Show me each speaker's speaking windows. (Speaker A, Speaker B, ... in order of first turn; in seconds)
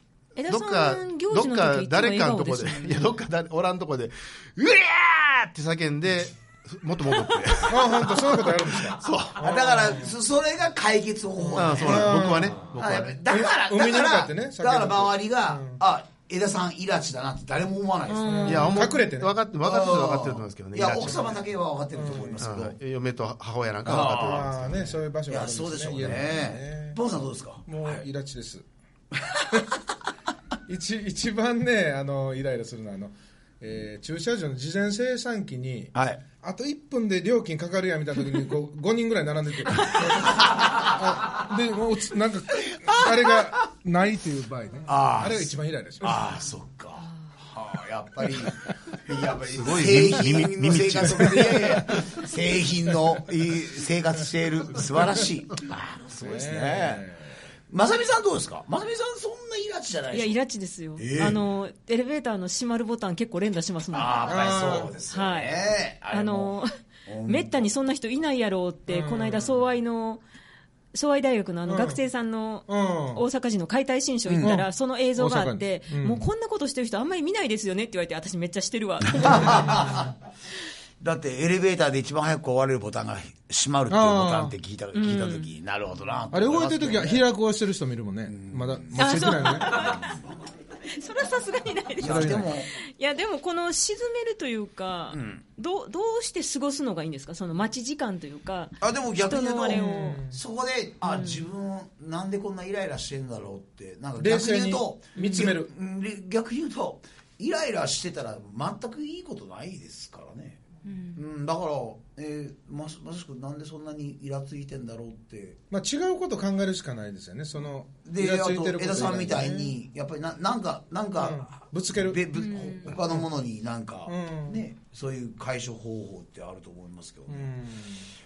Speaker A: 0.4-3.2, 18.1-18.9, 60.1-66.7, 67.3-70.2, 70.9-80.1, 84.9-85.5, 89.0-90.2, 90.8-100.2, 101.0-101.5, 105.2-105.5, 110.9-111.2, 122.4-122.9
Speaker B: 0.5-9.9, 11.5-13.2, 18.4-21.4, 22.4-24.9, 49.5-52.0
Speaker C: 7.7-10.2, 11.4-12.6, 13.2-15.8, 18.2-19.3, 21.9-22.4, 23.9-27.0, 27.6-28.7, 30.7-46.4, 56.1-57.4, 64.3-64.9, 68.9-69.5, 71.7-72.0, 72.7-73.2, 74.4-76.3, 83.9-84.6, 86.3-89.9, 92.0-92.5, 99.7-100.4, 104.2-105.7, 115.7-119.8, 121.2-122.2, 122.9-123.2, 124.1-124.6, 127.3-128.1
Speaker D: 9.4-18.7, 19.6-22.8, 23.9-24.6, 25.3-28.0, 29.3-29.6, 35.9-36.2, 40.2-41.0, 42.6-43.4, 44.9-57.1, 57.7-60.4, 61.0-61.4, 63.9-66.5, 67.1-67.7, 74.3-74.5, 79.2-80.2, 81.0-87.3, 88.3-90.4, 92.0-92.7, 95.1-95.4, 98.8-110.6, 111.1-115.6, 118.0-127.5